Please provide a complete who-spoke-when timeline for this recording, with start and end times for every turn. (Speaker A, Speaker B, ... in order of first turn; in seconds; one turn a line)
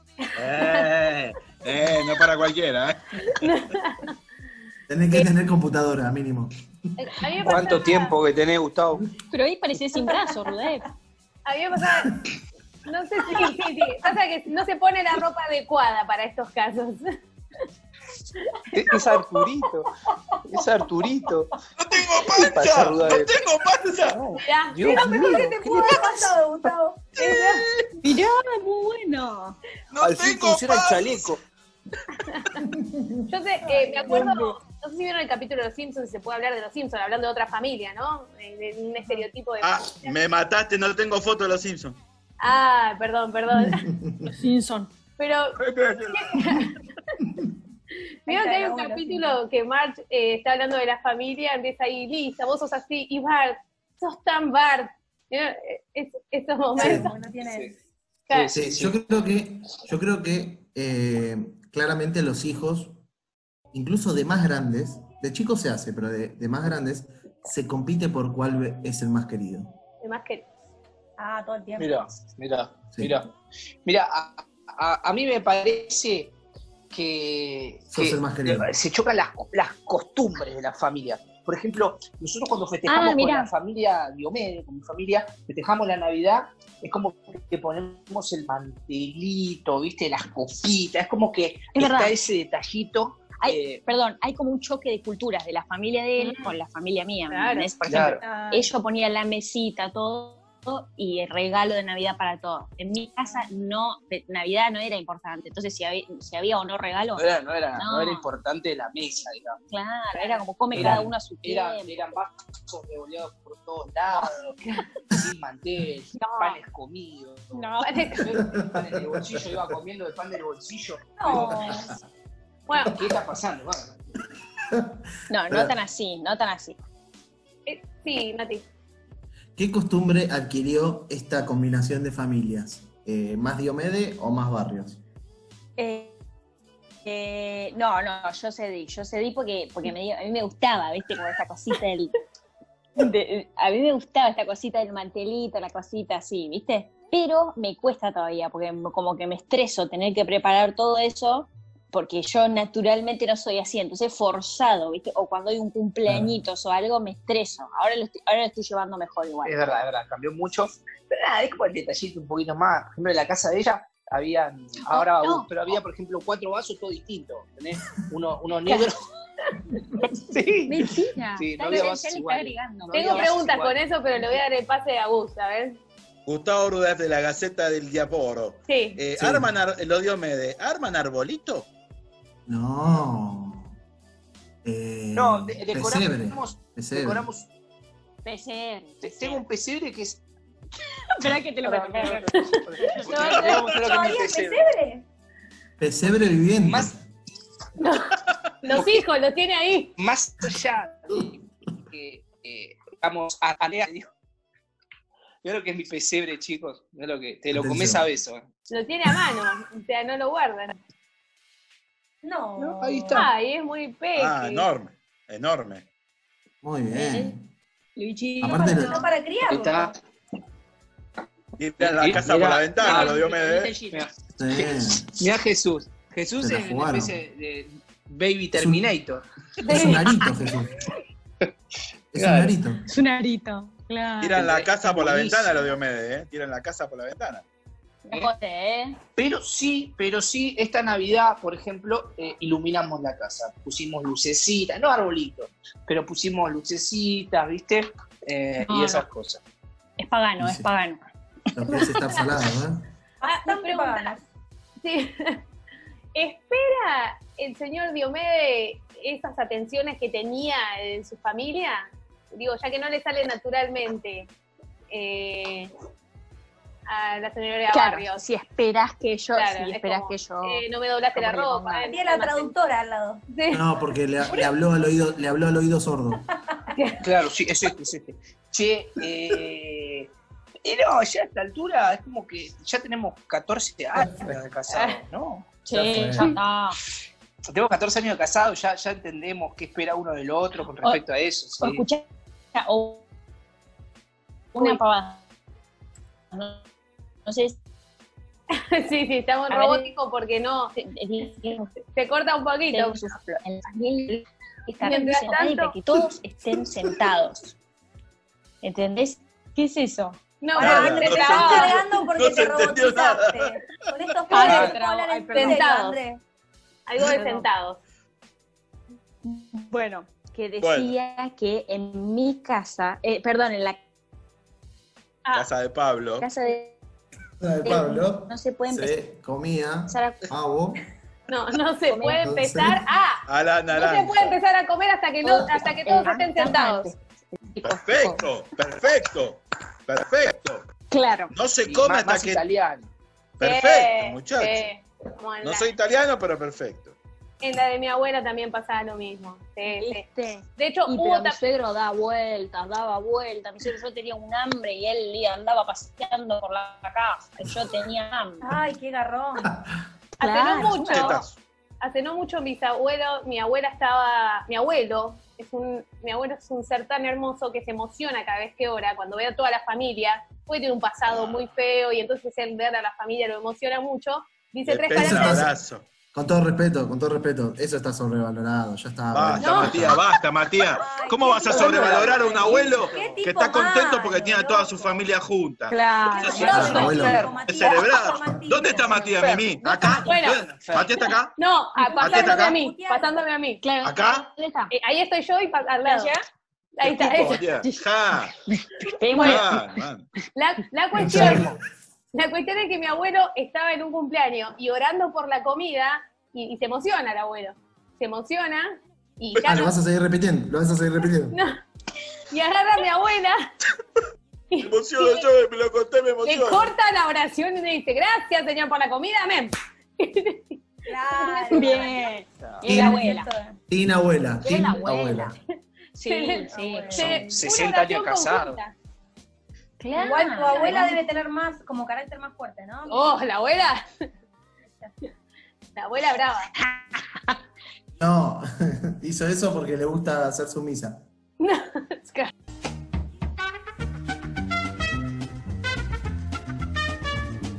Speaker A: 0.2-0.9
Speaker B: 0.4-3.5
Speaker A: 3.3-4.1
Speaker C: 4.9-6.6
Speaker A: 7.0-8.2
Speaker D: 7.4-9.1
Speaker E: 9.3-10.9
Speaker A: 11.5-12.2
Speaker A: 12.9-17.2
Speaker A: 18.5-19.0
Speaker D: 18.7-19.9
Speaker D: 20.4-21.5
Speaker B: 21.8-24.2
Speaker D: 22.3-23.4
Speaker D: 23.9-26.3
Speaker A: 24.4-25.3
Speaker F: 24.9-27.1
Speaker A: 27.2-27.7
Speaker B: 27.2-27.9
Speaker E: 28.0-29.6
Speaker B: 29.9-31.3
Speaker D: 30.0-31.4
Speaker A: 32.3-32.5
Speaker C: 32.7-33.2
Speaker A: 33.3-40.1
Speaker F: 33.6-34.3
Speaker E: 34.1-34.5
Speaker B: 39.6-42.0
Speaker A: 42.4-43.9
Speaker C: 43.6-44.3
Speaker E: 44.3-44.9
Speaker A: 45.2-46.8
Speaker B: 45.6-46.4
Speaker F: 48.3-49.4
Speaker A: 48.3-57.1
Speaker F: 56.8-57.7
Speaker C: 56.8-57.1
Speaker D: 57.4-57.7
Speaker A: 58.3-58.5
Speaker D: 58.3-59.0
Speaker C: 58.5-63.0
Speaker C: 63.7-69.7
Speaker A: 70.0-70.5
Speaker F: 71.2-72.0
Speaker D: 71.8-73.3
Speaker D: 73.8-76.3
Speaker D: 76.9-93.8
Speaker C: 77.9-78.7
Speaker E: 82.9-83.5
Speaker E: 91.8-92.1
Speaker E: 93.4-107.2
Speaker A: 96.2-96.5
Speaker A: 97.3-97.7
Speaker D: 97.9-98.2
Speaker F: 98.2-98.7
Speaker D: 107.2-109.6
Speaker E: 107.8-108.3
Speaker E: 109.7-112.2
Speaker D: 110.7-114.6
Speaker C: 110.8-111.0
Speaker D: 115.1-121.9
Speaker E: 116.2-116.6
Speaker E: 117.5-118.1
Speaker A: 117.8-118.3
Speaker C: 118.4-119.8
Speaker F: 121.2-121.9
Speaker A: 122.7-123.0
Speaker D: 122.8-124.0
Speaker C: 124.7-125.7
Speaker E: 125.3-126.8
Speaker A: 127.7-128.7
Speaker C: 129.6-135.0
Speaker E: 135.8-136.2
Speaker E: 137.1-142.2
Speaker E: 143.0-159.8
Speaker C: 156.1-156.3
Speaker D: 159.4-169.0
Speaker E: 164.8-165.5
Speaker D: 170.2-174.4
Speaker E: 170.7-173.4
Speaker A: 172.9-175.8
Speaker B: 176.3-181.7
Speaker A: 178.7-179.0
Speaker C: 179.2-179.5
Speaker C: 182.5-183.8
Speaker C: 184.7-187.3
Speaker D: 185.1-187.5
Speaker E: 188.2-189.4
Speaker D: 189.0-190.2
Speaker E: 191.2-192.3
Speaker D: 191.6-194.7
Speaker A: 192.3-193.7
Speaker F: 193.7-195.1
Speaker C: 195.8-197.0
Speaker D: 196.6-196.9
Speaker A: 197.8-198.1
Speaker A: 198.6-199.9
Speaker D: 200.0-204.1
Speaker D: 205.4-208.5
Speaker C: 207.5-208.1
Speaker A: 208.7-210.8
Speaker F: 212.2-213.3
Speaker D: 212.6-213.3
Speaker A: 213.1-214.7
Speaker B: 214.2-215.8
Speaker C: 216.6-217.5
Speaker E: 216.9-217.3
Speaker E: 218.0-219.1
Speaker C: 218.4-219.1
Speaker F: 218.4-219.9
Speaker D: 219.4-220.0
Speaker B: 221.6-223.8
Speaker D: 221.8-223.3
Speaker E: 222.8-224.0
Speaker D: 223.9-229.2
Speaker C: 224.4-225.2
Speaker C: 226.4-227.2
Speaker C: 228.5-228.9
Speaker A: 229.6-230.1
Speaker C: 229.7-230.8
Speaker C: 232.1-232.8
Speaker D: 232.2-232.6
Speaker E: 232.9-234.4
Speaker B: 234.2-237.4
Speaker D: 234.3-235.7
Speaker E: 238.1-239.0
Speaker D: 239.2-249.4
Speaker E: 248.6-249.1
Speaker E: 250.0-251.0
Speaker C: 250.4-250.7
Speaker C: 251.5-252.9
Speaker F: 253.2-254.2
Speaker A: 253.3-254.2
Speaker A: 254.8-255.4
Speaker A: 256.1-264.3
Speaker A: 264.9-265.7
Speaker A: 266.9-268.2
Speaker E: 267.7-271.9
Speaker A: 269.3-272.5
Speaker F: 271.9-273.2
Speaker A: 273.3-273.6
Speaker C: 273.5-276.2
Speaker A: 276.8-277.1
Speaker D: 277.0-280.1
Speaker D: 280.6-286.2
Speaker C: 283.9-284.4
Speaker A: 284.7-285.0
Speaker E: 285.6-286.8
Speaker C: 285.8-286.3
Speaker D: 287.5-291.8
Speaker E: 291.6-293.0
Speaker E: 294.6-295.2
Speaker E: 296.3-296.6
Speaker E: 297.3-297.6
Speaker A: 298.5-300.8
Speaker E: 299.5-299.9
Speaker E: 300.8-301.7
Speaker A: 301.9-303.1
Speaker E: 302.7-307.5
Speaker A: 304.8-305.7
Speaker E: 308.6-310.2
Speaker A: 310.4-311.8
Speaker B: 310.6-313.9
Speaker F: 310.6-316.2
Speaker E: 314.3-315.7
Speaker A: 314.3-314.7
Speaker D: 314.4-314.8
Speaker A: 315.3-316.0
Speaker A: 316.9-317.8
Speaker E: 317.0-317.5
Speaker E: 319.2-323.8
Speaker B: 320.6-320.9
Speaker B: 325.3-326.3
Speaker E: 326.2-326.8
Speaker C: 327.4-330.8
Speaker E: 327.6-328.9
Speaker E: 329.9-330.3
Speaker A: 331.3-336.9
Speaker E: 331.9-332.2
Speaker C: 332.0-332.9
Speaker B: 333.3-334.4
Speaker E: 335.2-338.3
Speaker B: 337.6-340.7
Speaker E: 340.9-341.3
Speaker B: 341.3-342.5
Speaker D: 341.6-342.9
Speaker B: 343.4-344.7
Speaker A: 343.4-345.7
Speaker B: 345.4-346.9
Speaker A: 347.4-350.0
Speaker E: 349.7-358.4
Speaker A: 350.6-351.4
Speaker F: 358.4-359.5
Speaker E: 360.2-361.2
Speaker A: 360.2-361.2
Speaker B: 360.8-361.4
Speaker A: 361.8-375.5
Speaker B: 371.1-371.4
Speaker B: 374.7-375.9
Speaker C: 374.9-375.5
Speaker C: 376.1-380.0
Speaker B: 379.1-391.4
Speaker A: 379.4-379.8
Speaker F: 380.6-385.0
Speaker D: 381.5-383.2
Speaker E: 385.7-387.0
Speaker F: 386.2-389.2
Speaker D: 386.3-387.4
Speaker C: 386.5-387.3
Speaker D: 389.1-391.0
Speaker A: 390.0-390.4
Speaker A: 391.4-393.6
Speaker F: 391.8-393.2
Speaker B: 392.0-392.6
Speaker E: 393.6-394.7
Speaker B: 393.8-394.3
Speaker A: 394.7-396.1
Speaker E: 395.9-396.2
Speaker A: 396.8-397.4
Speaker B: 396.8-398.3
Speaker E: 398.5-399.6
Speaker A: 399.1-399.5
Speaker B: 399.1-400.1
Speaker A: 400.4-401.5
Speaker C: 400.9-401.5
Speaker D: 401.1-401.5
Speaker A: 402.1-409.7
Speaker C: 409.4-411.4
Speaker A: 411.3-411.6
Speaker A: 412.3-413.5
Speaker A: 414.5-415.3
Speaker B: 414.6-416.7
Speaker A: 416.2-420.6
Speaker F: 420.9-423.6
Speaker A: 421.1-421.9
Speaker E: 421.5-423.3
Speaker C: 422.7-423.1
Speaker C: 423.7-425.4
Speaker E: 424.4-425.4
Speaker E: 425.9-427.3
Speaker A: 426.1-428.7
Speaker F: 426.5-427.4
Speaker D: 427.0-428.6
Speaker E: 429.8-431.0
Speaker F: 429.9-433.2
Speaker A: 430.5-430.9
Speaker A: 432.9-433.9
Speaker A: 435.8-436.5
Speaker C: 438.0-441.1
Speaker A: 441.4-442.3